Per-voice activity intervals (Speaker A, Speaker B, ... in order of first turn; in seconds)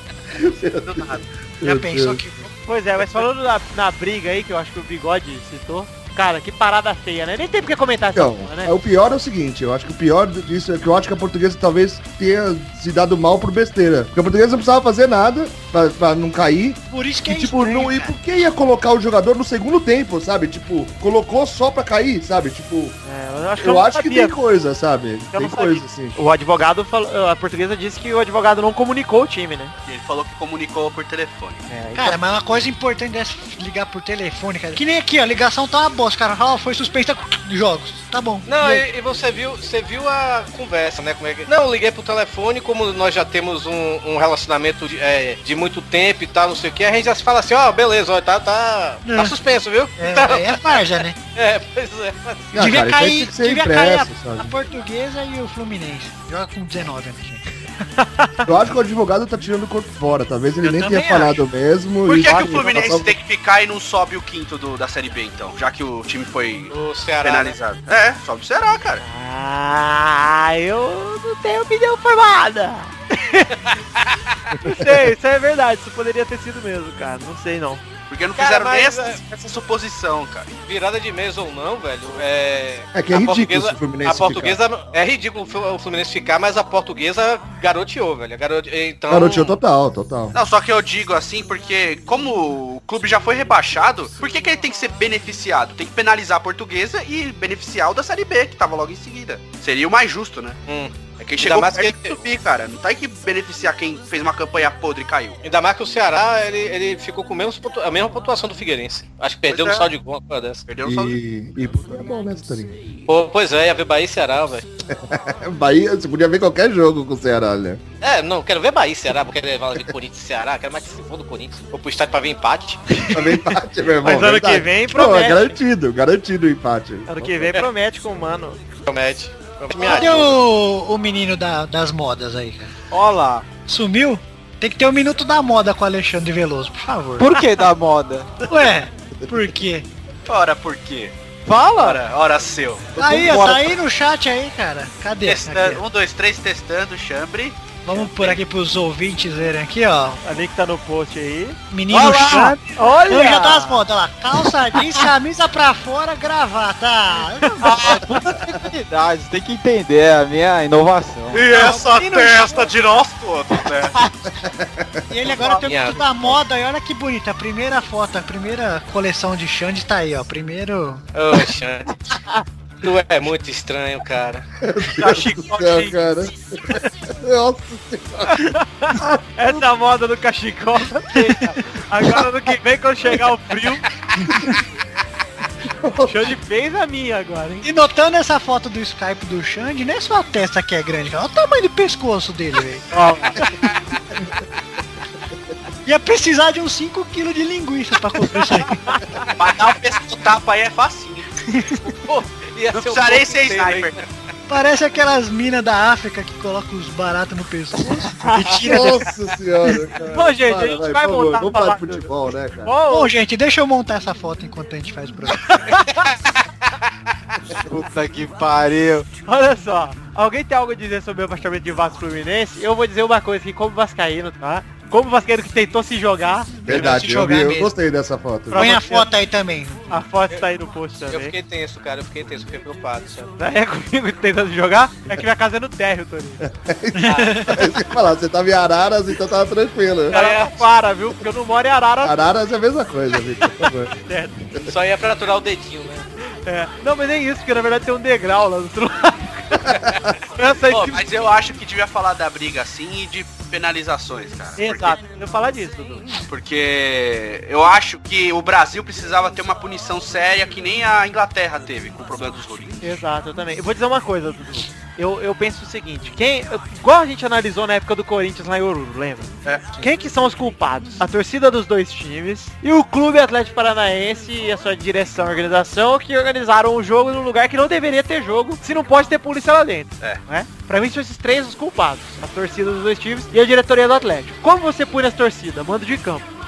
Speaker A: 0.3-2.2, 8.1-23.0, 23.6-26.2, 52.5-54.6, 58.4-63.1, 74.5-75.0, 82.9-84.6, 89.1-90.3, 110.8-112.8, 114.9-117.8, 123.1-127.3, 139.2-139.5, 143.0-143.6, 164.4-165.1, 174.6-179.6, 185.7-186.3, 208.6-212.8, 226.7-228.7, 236.4-240.2, 242.0-243.9, 249.7-250.1
Speaker B: 0.8-1.2, 29.8-31.6, 62.0-69.0, 78.1-80.5, 90.3-100.6, 101.2-105.4, 109.5-109.8, 110.7-111.2, 140.3-141.1, 141.8-143.0, 145.2-148.4, 161.3-163.9, 165.2-165.7, 199.3-201.3, 202.7-204.0, 250.7-255.0, 256.3-262.9, 269.4-269.7
Speaker C: 1.6-2.5, 16.9-18.1, 31.9-38.9, 49.0-49.4, 50.0-51.2, 52.5-57.4, 60.6-61.4, 129.7-132.7, 133.6-137.2, 138.5-139.9, 142.9-145.8, 147.8-150.2, 151.7-158.0, 161.5-162.7, 165.1-171.0, 181.1-181.5, 184.2-184.6, 187.6-192.8, 195.8-199.0, 201.5-201.8, 204.5-209.1, 212.9-215.6, 226.7-227.7, 228.5-230.0, 236.9-237.5
Speaker D: 2.4-8.7, 23.0-24.3, 25.3-29.7, 31.7-32.2, 58.0-58.4, 62.2-62.9, 69.0-73.7, 74.6-77.8, 124.0-125.6, 127.1-128.6, 137.3-137.6, 150.2-153.8, 157.6-158.2, 175.0-175.9, 178.3-183.8, 186.0-187.7, 192.9-193.4, 198.7-199.0, 208.2-209.0, 210.1-213.1, 215.4-216.1, 219.2-227.0, 228.5-229.1, 229.9-231.3, 233.4-236.4, 240.1-242.2, 244.0-244.4, 246.4-249.7, 250.3-251.1, 254.6-256.2, 262.8-286.3
Speaker E: 38.4-52.5, 66.7-67.6, 78.4-79.2, 80.7-89.6, 100.7-102.2, 105.4-110.6, 113.1-114.7, 118.0-122.8, 128.9-130.4, 132.9-133.4, 165.6-166.4, 171.1-172.0, 172.8-174.5, 201.9-204.0, 231.1-233.3, 240.1-240.5, 244.6-246.1
Speaker F: 137.2-138.3, 141.4-142.0, 143.2-143.6, 152.0-152.5, 157.6-161.5, 217.6-219.1